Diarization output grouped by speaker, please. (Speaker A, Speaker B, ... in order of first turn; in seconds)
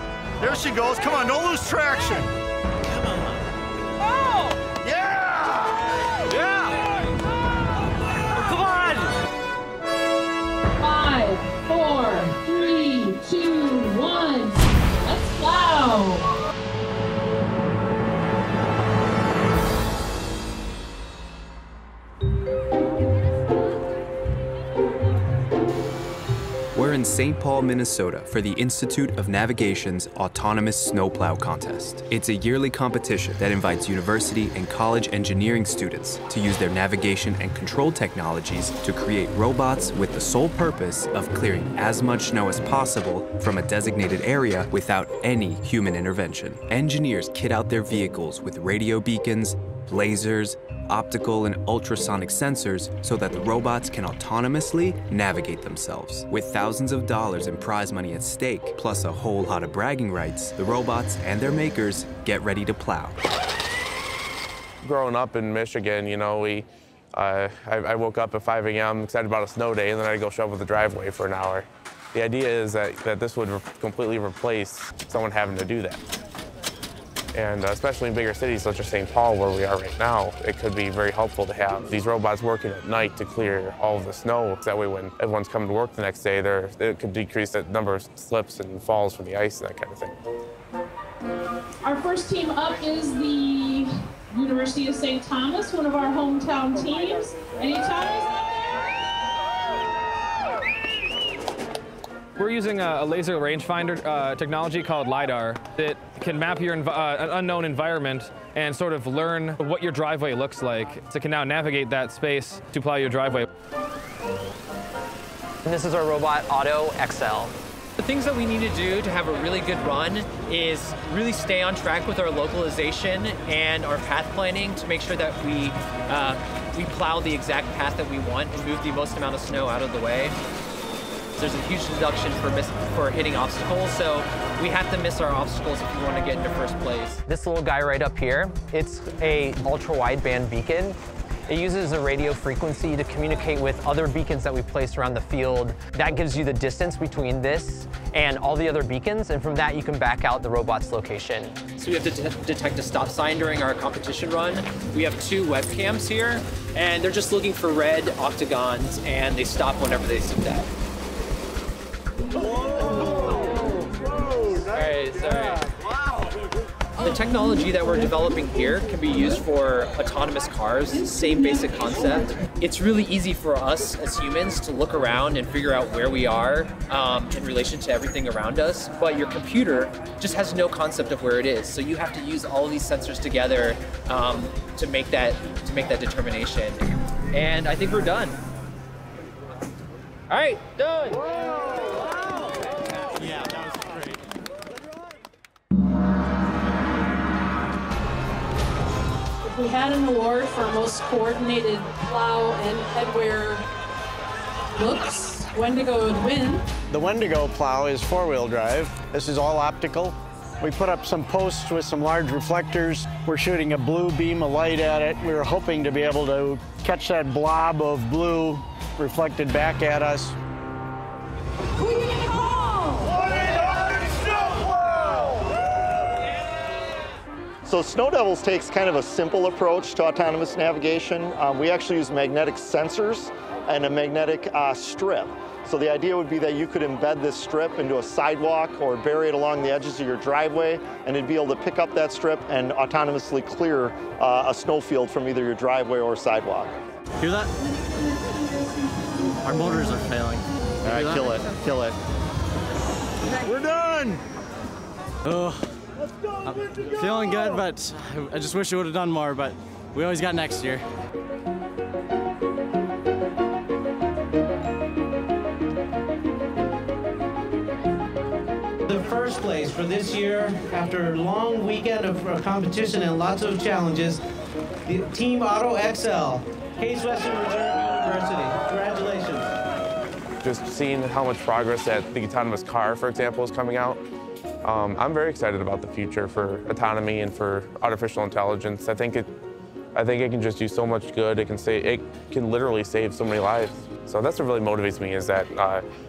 Speaker A: 0.4-2.3, 4.8-5.8, 227.6-246.7, 250.8-252.0, 253.4-254.2
Speaker B: 10.8-16.3, 91.8-98.3, 199.4-203.6, 204.8-206.6
Speaker C: 26.7-63.2
Speaker D: 64.8-76.0, 77.3-90.2, 280.4-284.0, 284.6-289.3, 289.9-295.8
Speaker E: 102.4-113.5
Speaker F: 115.6-117.5, 137.3-141.0, 141.5-151.6
Speaker G: 118.0-130.3, 131.3-137.2, 151.7-160.7, 164.7-165.6, 167.0-188.4, 190.3-191.2
Speaker H: 206.9-220.3
Speaker I: 247.2-247.5, 249.4-251.3, 255.2-255.7, 256.4-260.8
Speaker J: 268.9-274.2, 274.9-279.5